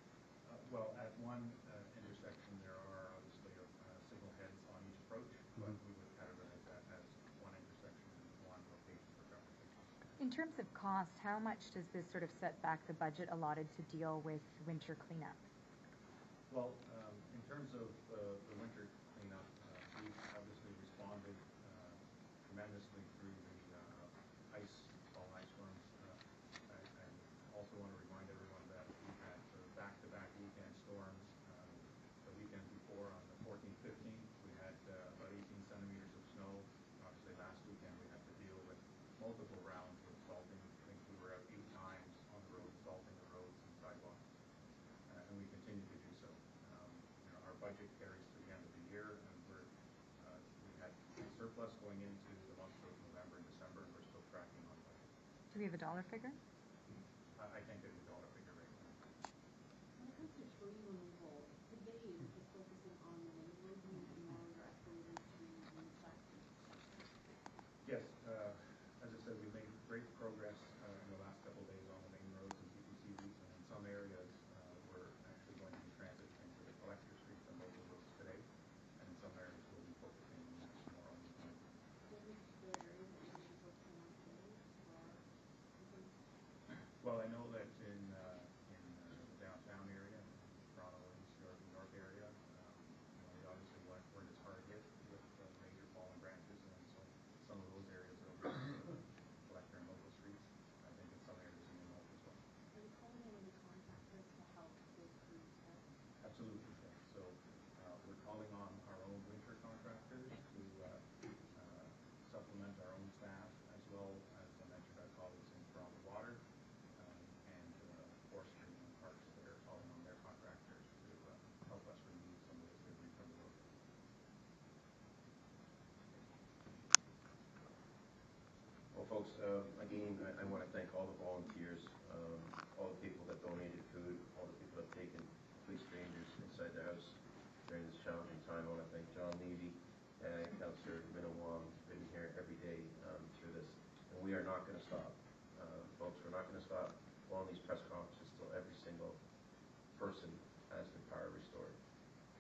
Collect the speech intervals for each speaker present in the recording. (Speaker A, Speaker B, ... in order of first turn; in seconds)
Speaker A: 0.4-9.9, 16.5-44.2, 45.1-55.1, 57.4-59.0, 67.8-78.5, 79.0-81.7, 87.0-102.4, 106.2-116.4, 117.0-123.7
Speaker B: 10.2-15.4, 55.5-56.4
Speaker C: 60.0-66.6, 82.1-85.2, 85.8-86.2, 102.7-105.8
Speaker D: 128.9-149.2, 149.9-151.8